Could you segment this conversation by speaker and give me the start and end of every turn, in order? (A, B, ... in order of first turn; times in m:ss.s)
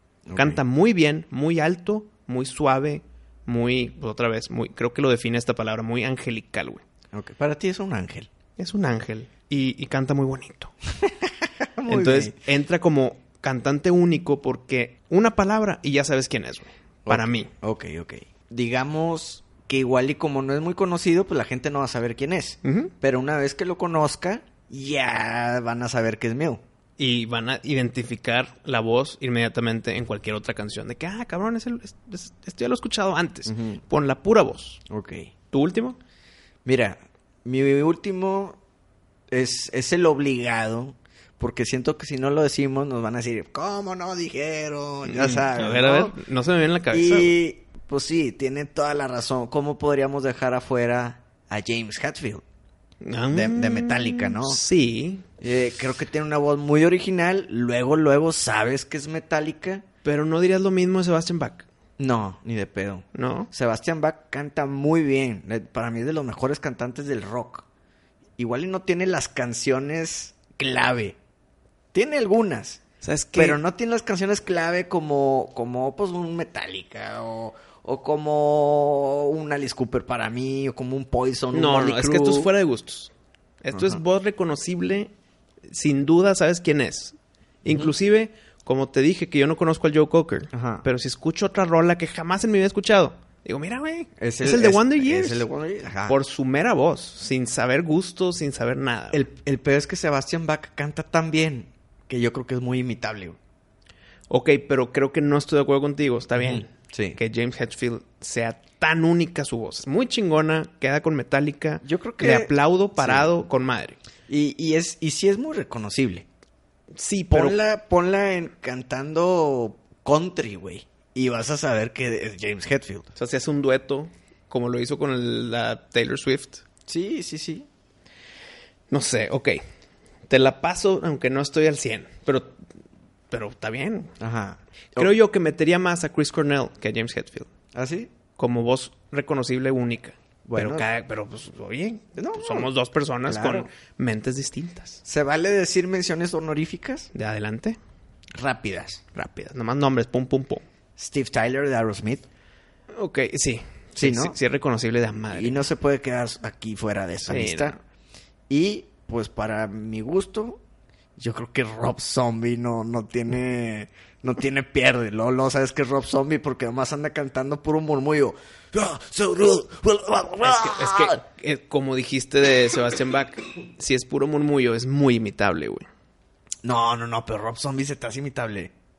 0:00.2-0:00.6 A
0:00.3-0:06.8 B
0:07.1-0:08.3 A
0:08.6-0:10.7 B
0:11.0-0:12.4 A
0:11.9-0:17.5 B
0:17.0-0:26.6 A
0:22.6-0:22.9 B
0:27.0-0:34.8 B
0:33.4-0:33.8 A
0:34.9-0:35.3 A
0:35.5-0:36.0 B
0:36.6-0:38.6 A
0:39.3-0:46.2 A
0:45.0-0:47.3 B
0:46.9-0:52.4 A
0:53.0-0:55.2 B
0:53.3-0:54.6 A
0:55.4-0:59.8 A
1:00.0-1:01.7 B
1:02.0-1:07.6 A
1:03.1-1:03.5 B
1:08.4-1:11.2 A
1:11.9-1:12.8 A
1:13.0-1:13.6 B
1:13.3-1:22.5 A
1:21.5-1:25.1 B
1:23.7-1:24.0 A
1:25.7-1:35.4 B
1:27.6-1:27.9 A
1:30.5-1:30.8 A
1:34.2-1:36.2 A
1:36.1-1:39.2 B
1:39.1-1:43.4 A
1:44.3-1:54.0 B
1:46.4-1:47.2 A
1:51.8-1:53.3 A
1:54.3-1:56.2 A
1:56.9-1:57.6 B
1:57.3-2:03.1 A
2:03.1-2:06.6 B
2:06.9-2:07.7 A
2:08.9-2:09.6 B
2:10.3-2:12.5 B
2:13.3-2:14.1 B
2:14.2-2:15.1 A
2:15.0-2:17.5 B
2:17.7-2:18.1 A
2:18.4-2:25.0 B
2:20.4-2:20.8 A
2:22.2-2:22.7 A
2:23.2-2:23.7 A
2:25.0-2:27.1 A
2:27.1-2:27.8 B
2:28.3-2:29.0 A
2:29.1-2:30.6 B
2:31.0-2:32.2 A
2:33.0-2:35.6 B
2:34.0-2:34.4 A
2:35.3-2:37.8 A
2:37.3-2:37.7 B
2:38.5-2:40.6 A
2:41.2-2:51.2 A
2:50.4-2:55.8 B
2:56.6-2:58.7 A